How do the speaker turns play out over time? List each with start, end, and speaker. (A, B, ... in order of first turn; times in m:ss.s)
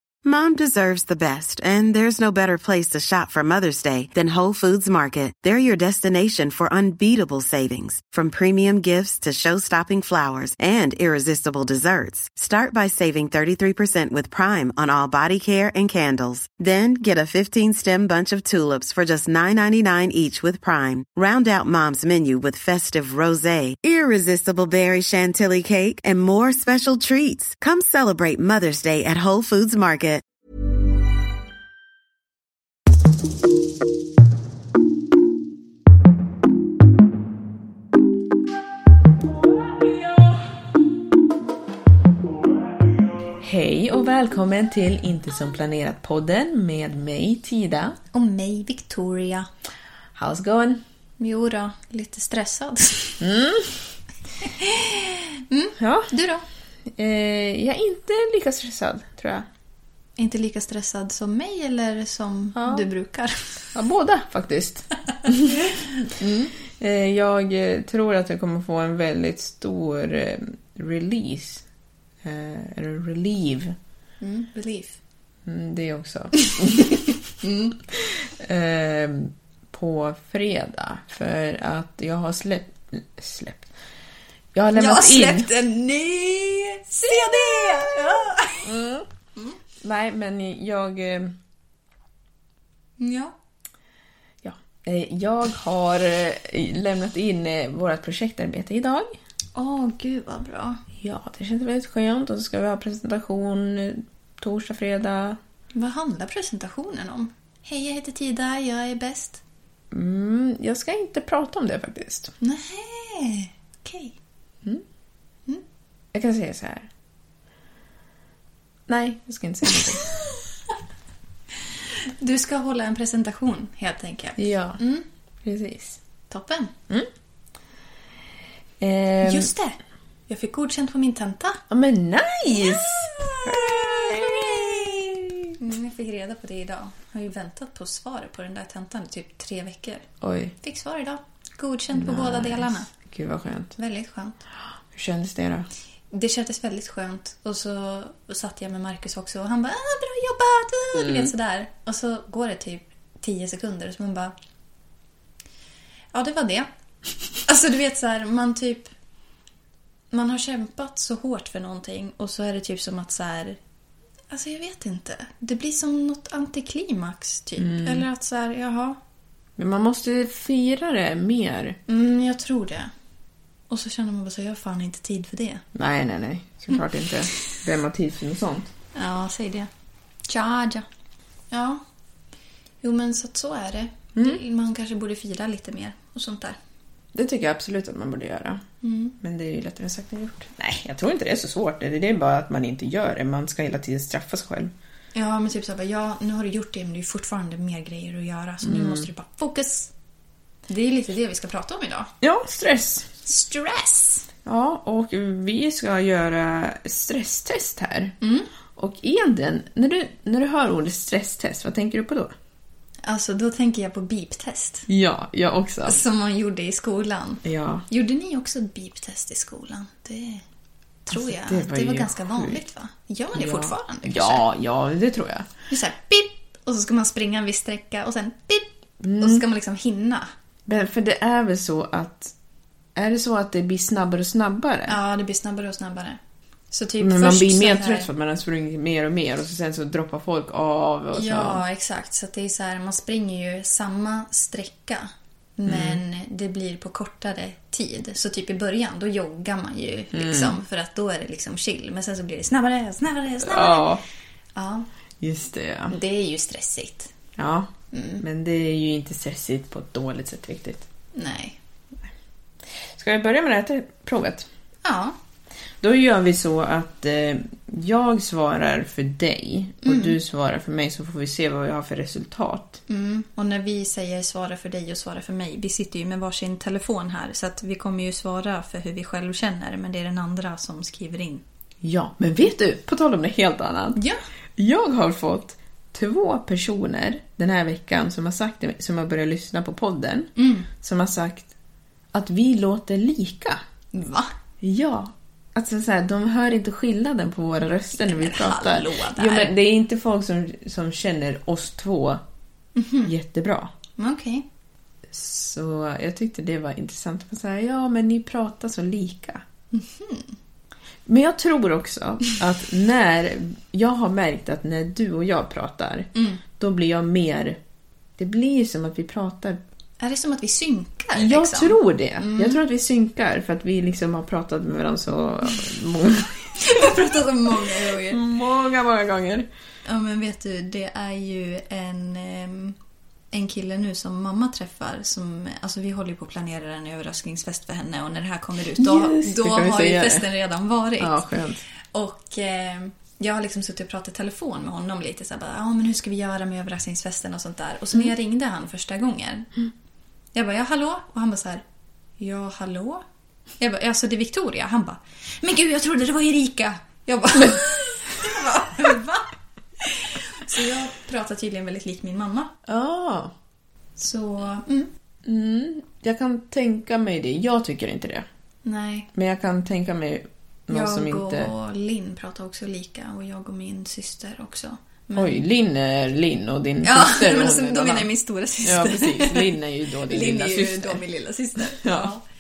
0:00.2-0:30.2 A
0:43.4-0:48.0 B
0:48.1-0:49.5 C
0:50.1-0:50.8 B
0:51.2-0:53.2 C
0:53.2-0:53.8 B
0:54.4-0:56.4 C
0:55.8-0:56.1 B
0:56.9-0:59.5 B
1:00.2-1:03.7 C
1:02.5-1:02.9 B
1:03.7-1:05.6 B
1:06.2-1:11.6 B
1:12.2-1:13.8 B
1:14.2-1:15.0 C
1:15.4-1:17.2 B
1:17.4-1:17.8 C
1:17.9-1:23.6 B
1:24.5-1:25.5 B
1:24.7-1:28.7 C
1:27.1-1:28.1 B
1:28.6-1:29.1 B
1:29.8-1:31.4 B
1:33.0-1:33.3 C
1:34.4-1:39.2 B
1:39.6-1:40.8 C
1:41.0-1:45.4 B
1:45.7-1:49.4 C
1:49.9-1:52.3 B
1:52.4-1:54.1 C
1:56.1-1:56.9 B
1:58.9-2:00.0 B
2:02.2-2:05.0 C
2:04.4-2:04.8 B
2:05.4-2:06.0 B
2:06.3-2:06.7 C
2:08.8-2:09.5 B
2:09.2-2:09.8 C
2:10.3-2:11.6 C
2:11.7-2:15.5 B
2:12.6-2:14.9 C
2:15.6-2:20.0 C
2:20.2-2:20.5 B
2:20.6-2:22.9 C
2:21.9-2:23.7 B
2:23.8-2:24.4 C
2:24.9-2:25.7 B
2:26.1-2:34.3 C
2:31.0-2:31.3 B
2:36.1-2:36.7 C
2:37.4-2:38.9 C
2:40.1-2:43.6 C
2:44.3-2:49.0 C
2:47.6-2:48.0 B
2:49.6-2:51.8 B
2:51.9-2:52.9 C
2:53.7-2:55.6 C
2:55.7-2:58.7 B
2:58.9-2:59.7 C
3:00.3-3:00.8 C
3:01.5-3:01.8 C
3:02.8-3:06.6 C
3:04.1-3:04.4 B
3:07.1-3:08.6 B
3:08.8-3:09.1 C
3:09.2-3:14.7 B
3:15.1-3:19.9 C
3:18.6-3:19.1 B
3:20.7-3:22.1 C
3:22.2-3:23.1 B
3:23.2-3:24.3 C
3:24.4-3:28.1 B
3:28.2-3:28.5 C
3:28.8-3:32.3 B
3:33.0-3:34.9 C
3:34.9-3:36.0 B
3:35.8-3:40.4 C
3:37.4-3:37.8 B
3:41.0-3:44.4 C
3:41.1-3:42.6 B
3:43.3-3:45.5 B
3:45.7-3:50.3 C
3:49.0-3:49.4 B
3:50.7-3:52.3 B
3:52.9-3:55.0 B
3:54.9-3:56.2 C
3:56.7-3:58.1 C
3:57.0-4:01.6 B
4:01.1-4:13.9 C
4:05.7-4:06.0 B
4:10.1-4:10.6 B
4:13.4-4:14.0 B
4:14.5-4:14.8 C
4:15.2-4:15.9 B
4:15.9-4:17.1 C
4:17.4-4:20.8 B
4:17.9-4:18.2 C
4:21.1-4:21.6 C
4:22.9-4:24.5 B
4:24.8-4:25.2 C
4:25.8-4:32.8 B
4:29.8-4:30.2 C
4:32.9-4:41.4 C
4:41.8-4:44.0 B
4:43.9-4:44.2 C
4:44.6-4:51.5 B
4:50.4-4:50.7 C
4:52.1-4:53.6 B
4:53.9-4:54.3 C
4:54.6-5:02.2 B
4:58.0-4:59.6 C
5:02.8-5:03.1 C
5:03.0-5:03.7 B
5:04.0-5:04.4 C
5:05.1-5:09.4 B
5:09.7-5:10.3 C
5:11.0-5:17.6 B
5:16.1-5:16.4 C
5:18.2-5:19.6 B
5:20.0-5:22.6 C
5:21.1-5:26.6 B
5:26.6-5:28.2 C
5:28.1-5:29.5 B
5:29.8-5:32.8 C
5:33.3-5:41.2 C
5:38.8-5:40.3 B
5:41.0-5:41.6 B
5:41.9-5:49.5 C
5:50.3-5:51.6 C
5:52.2-5:53.0 C
5:53.6-5:59.3 C
5:59.8-6:02.5 C
6:02.6-6:03.3 B
6:04.0-6:04.9 C
6:05.2-6:08.2 B
6:08.6-6:09.1 C
6:09.1-6:11.5 B
6:10.7-6:15.4 C
6:15.1-6:18.1 B
6:16.8-6:19.5 C
6:18.6-6:21.0 B
6:20.1-6:22.2 C
6:21.6-6:22.1 B